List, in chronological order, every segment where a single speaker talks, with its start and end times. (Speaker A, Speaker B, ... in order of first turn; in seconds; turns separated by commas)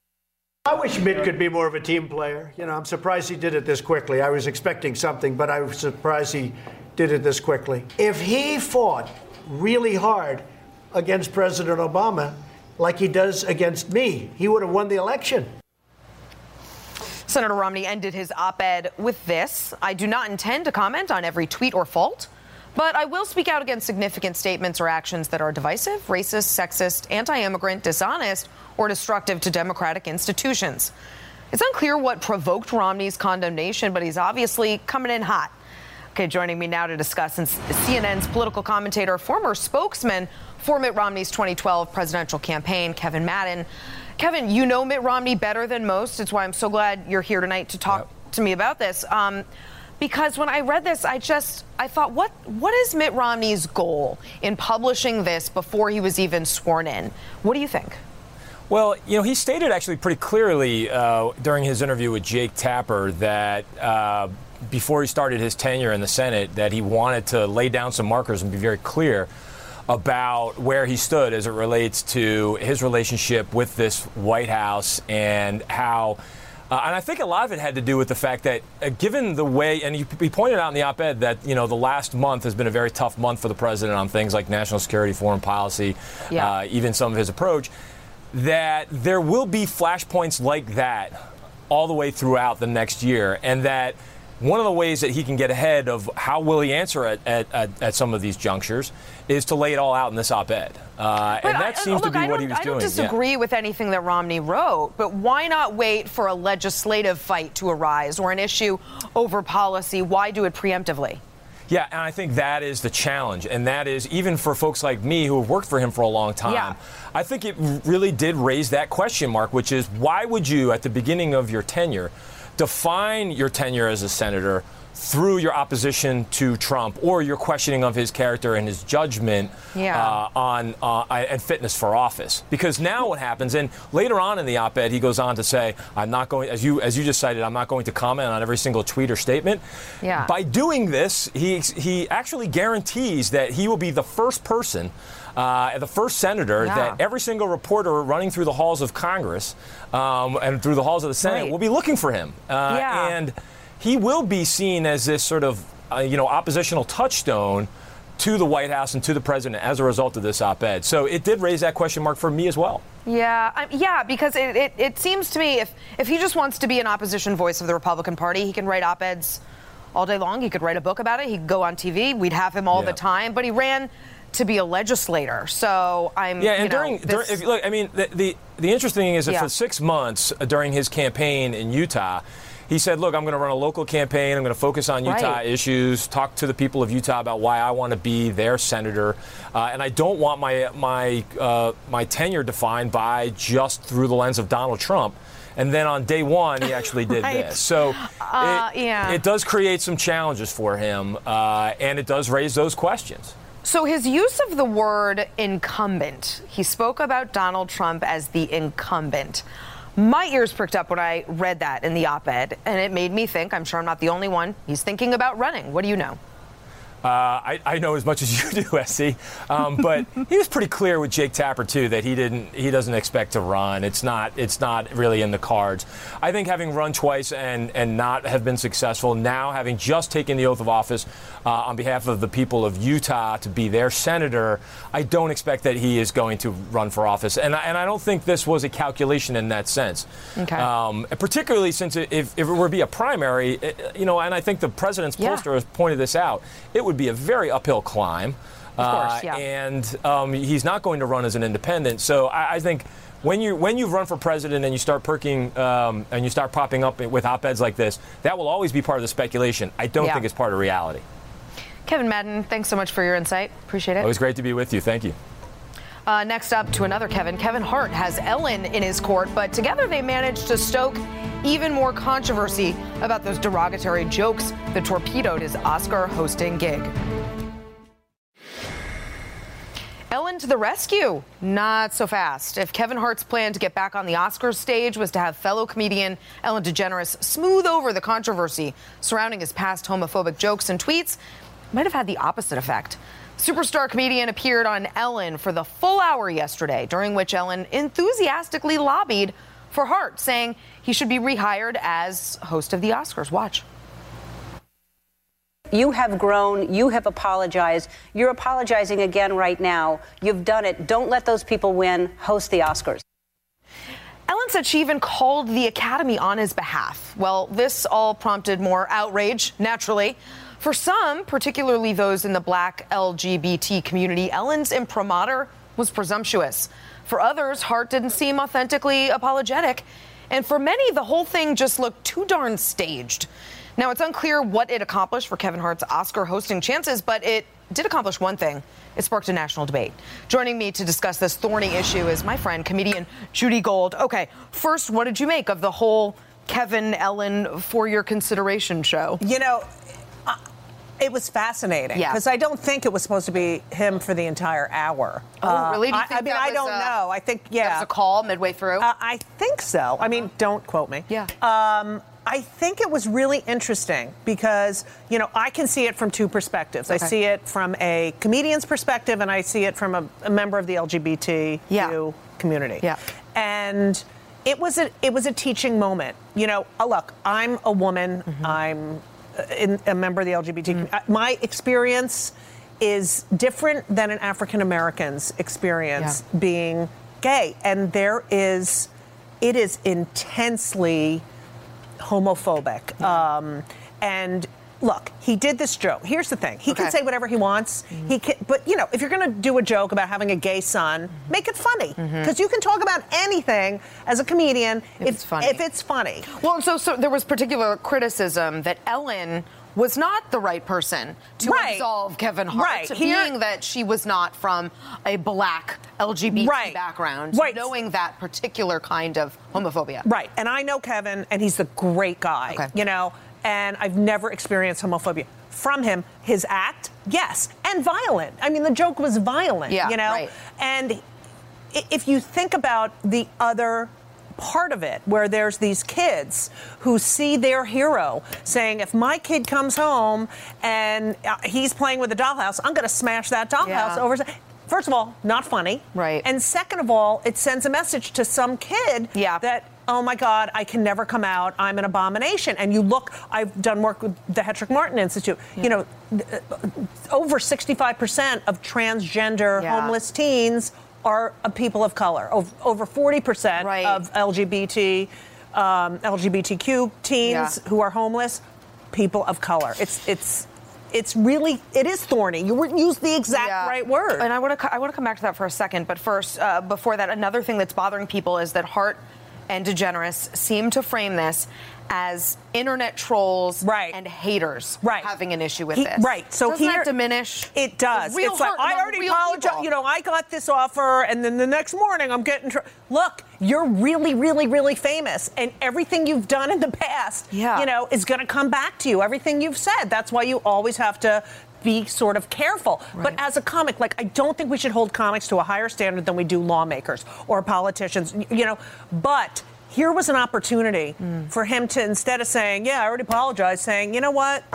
Speaker A: 0.7-15.5, Speaker B: 17.3-30.9, Speaker B: 31.5-35.5, Speaker B: 36.1-43.7, Speaker B: 44.2-49.5, Speaker B: 50.0-58.0, Speaker C: 58.7-69.3, Speaker C: 69.9-76.2, Speaker C: 76.7-87.7, Speaker C: 88.3-103.2, Speaker B: 101.4-111.2, Speaker C: 111.7-162.8, Speaker B: 116.5-116.8, Speaker B: 129.7-130.2, Speaker B: 140.0-140.3, Speaker B: 146.6-147.0, Speaker B: 151.2-151.6, Speaker B: 152.7-153.2, Speaker B: 163.1-169.4, Speaker B: 169.9-177.4, Speaker C: 172.7-173.0, Speaker C: 176.4-203.3, Speaker B: 185.1-185.4, Speaker B: 197.3-199.2, Speaker B: 203.6-209.4, Speaker B: 210.0-216.2, Speaker C: 217.0-261.0, Speaker B: 240.4-240.7, Speaker B: 245.2-245.4, Speaker B: 248.8-249.4, Speaker B: 261.9-264.1, Speaker C: 264.0-265.2, Speaker B: 266.1-276.9, Speaker B: 280.1-291.2, Speaker B: 291.7-303.6, Speaker D: 305.7-313.0, Speaker B: 314.3-349.2, Speaker E: 349.2-349.7, Speaker E: 351.0-357.9, Speaker B: 351.9-352.2, Speaker B: 355.4-356.9, Speaker B: 357.6-358.9, Speaker E: 358.8-388.9, Speaker B: 366.9-367.1, Speaker B: 371.7-372.0, Speaker E: 389.4-391.2, Speaker E: 392.0-406.3, Speaker B: 396.7-396.9, Speaker B: 402.0-402.3, Speaker B: 405.0-405.6, Speaker B: 406.3-420.1, Speaker E: 411.4-411.9, Speaker E: 412.5-413.3, Speaker E: 416.3-416.8, Speaker E: 417.3-417.7, Speaker E: 420.1-431.0, Speaker B: 429.7-430.3, Speaker E: 431.7-468.4, Speaker B: 443.6-444.1, Speaker B: 445.9-446.3, Speaker B: 449.1-449.4, Speaker B: 459.6-460.0, Speaker B: 463.6-464.0, Speaker B: 467.2-467.6, Speaker E: 468.9-474.3, Speaker B: 473.3-489.7, Speaker E: 483.6-484.0, Speaker E: 484.8-485.1, Speaker E: 485.7-486.9, Speaker E: 487.5-514.5, Speaker B: 497.3-497.7